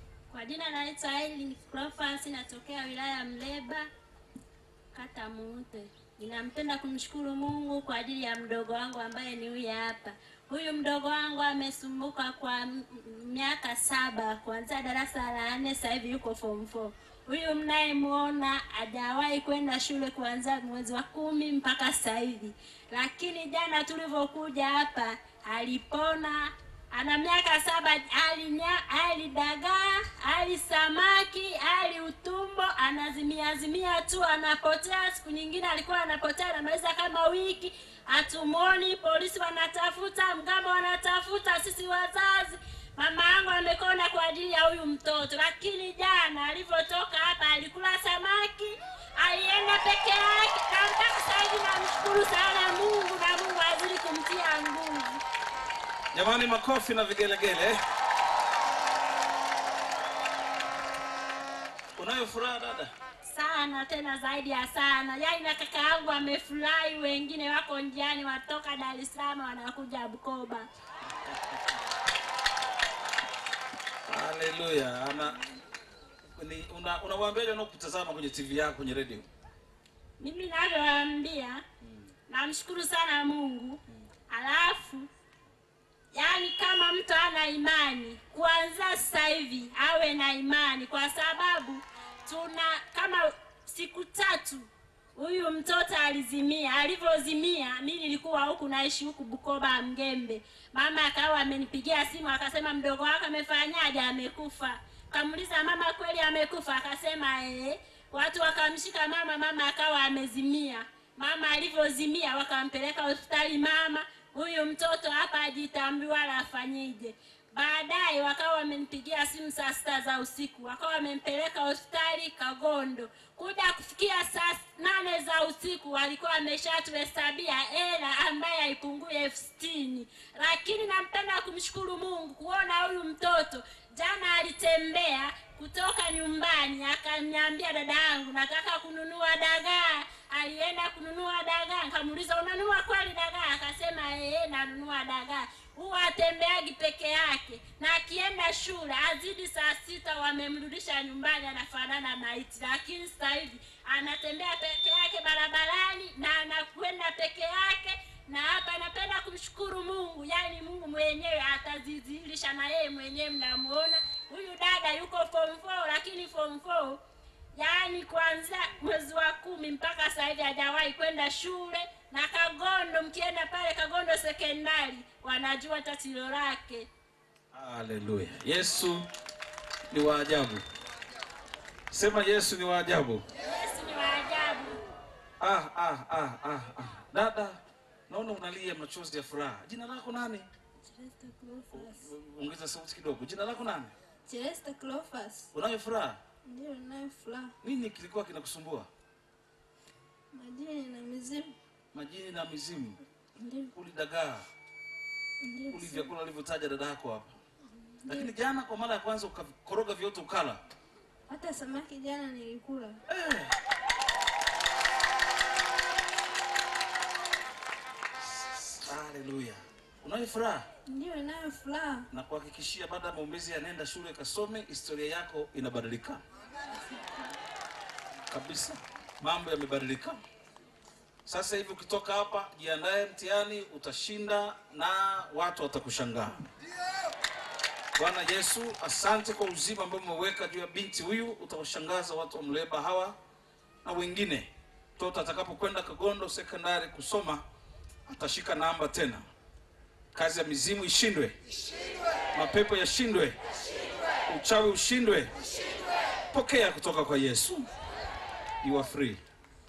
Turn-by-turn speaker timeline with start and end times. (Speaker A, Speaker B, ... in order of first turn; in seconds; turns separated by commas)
Speaker A: 0.3-3.9, Speaker A: 4.9-55.2, Speaker B: 56.1-57.8, Speaker B: 62.0-62.9, Speaker A: 63.2-70.7, Speaker B: 74.1-75.4, Speaker B: 76.3-79.3, Speaker A: 80.2-81.6, Speaker A: 82.3-85.1, Speaker A: 86.1-167.0, Speaker A: 167.6-176.9, Speaker B: 177.5-179.0, Speaker B: 179.9-180.6, Speaker B: 181.9-183.2, Speaker A: 183.4-184.8, Speaker B: 185.4-190.5, Speaker C: 190.9-192.0, Speaker B: 191.7-193.9, Speaker C: 194.3-195.5, Speaker B: 195.5-196.2, Speaker C: 196.5-197.5, Speaker B: 197.6-198.9, Speaker C: 200.3-201.5, Speaker B: 201.9-203.0, Speaker C: 203.4-203.7, Speaker B: 203.7-204.5, Speaker C: 205.4-206.1, Speaker B: 205.7-207.4, Speaker C: 208.0-208.3, Speaker B: 208.1-210.6, Speaker C: 211.3-213.0, Speaker B: 213.1-213.5, Speaker B: 218.3-220.7, Speaker C: 220.9-222.1, Speaker B: 222.1-226.2, Speaker B: 228.3-230.2, Speaker B: 231.2-236.4, Speaker B: 238.0-243.2, Speaker B: 243.8-247.4, Speaker B: 248.1-249.3, Speaker B: 250.1-251.4, Speaker B: 252.3-253.4, Speaker B: 254.3-255.3, Speaker B: 256.3-257.7, Speaker B: 258.6-259.2